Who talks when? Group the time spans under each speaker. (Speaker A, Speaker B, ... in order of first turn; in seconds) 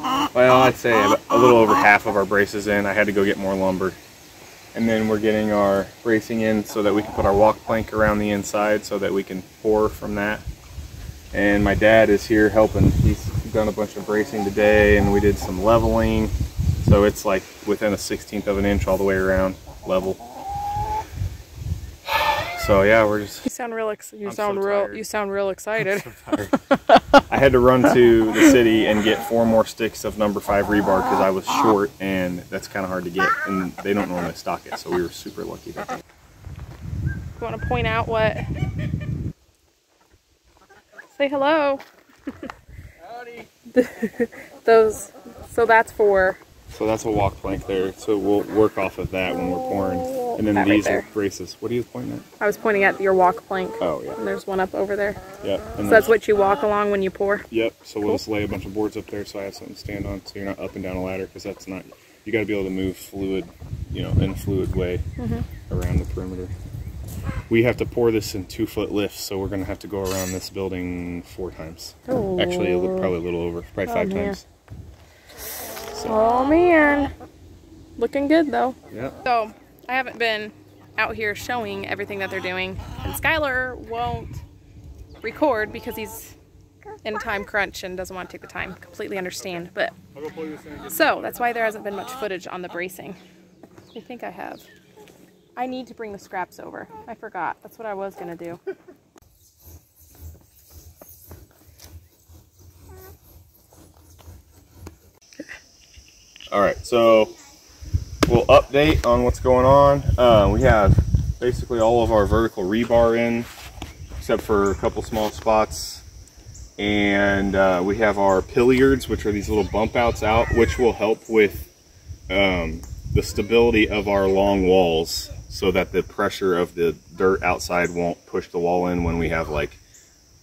Speaker A: 0.3-4.0, 4.7-10.4, 11.3-20.2, 22.0-23.5, 24.2-25.0, 25.8-26.5, 27.3-35.9, 46.7-52.2, 53.8-54.2, 55.4-56.1, 57.5-65.0, 65.7-66.5, 67.5-74.4, 78.9-79.2, 89.4-91.7, 106.5-107.3, 108.3-113.5, 114.2-116.0, 116.8-121.7, 122.3-129.8
Speaker B: 23.5-26.3, 37.4-38.5, 41.1-41.8, 43.7-46.4, 50.1-51.1, 52.4-55.2, 55.8-57.5, 65.2-65.5, 72.1-73.1, 73.8-74.4, 75.9-77.1, 78.0-84.4, 85.2-86.3, 87.0-90.0, 90.8-93.2, 93.9-94.7, 95.5-98.6